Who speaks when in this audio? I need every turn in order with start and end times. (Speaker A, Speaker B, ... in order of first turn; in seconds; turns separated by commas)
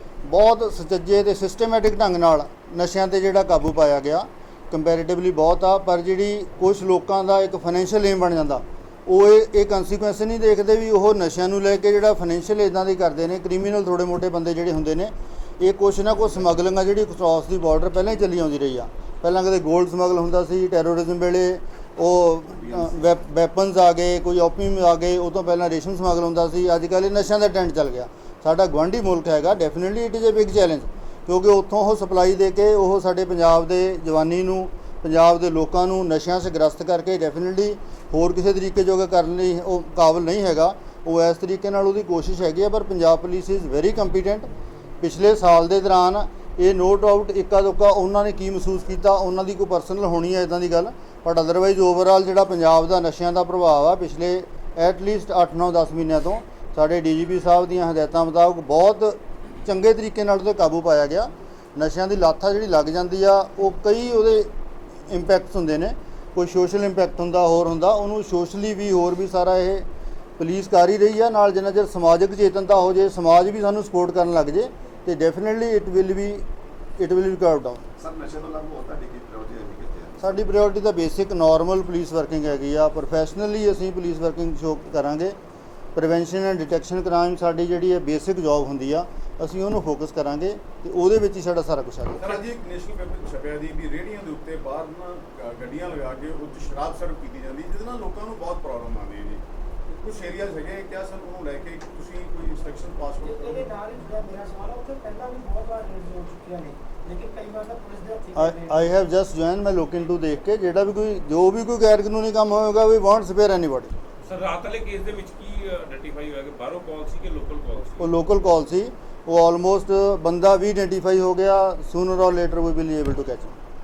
Speaker A: 0.2-44.5, Speaker B: 22.5-23.0, Speaker A: 45.0-64.5, Speaker A: 65.1-69.9, Speaker A: 70.4-76.5, Speaker A: 77.0-77.8, Speaker B: 78.0-80.4, Speaker A: 80.2-85.4, Speaker A: 86.0-92.4, Speaker C: 92.2-103.7, Speaker D: 103.2-108.8, Speaker A: 108.4-113.9, Speaker E: 114.2-118.1, Speaker A: 118.0-123.5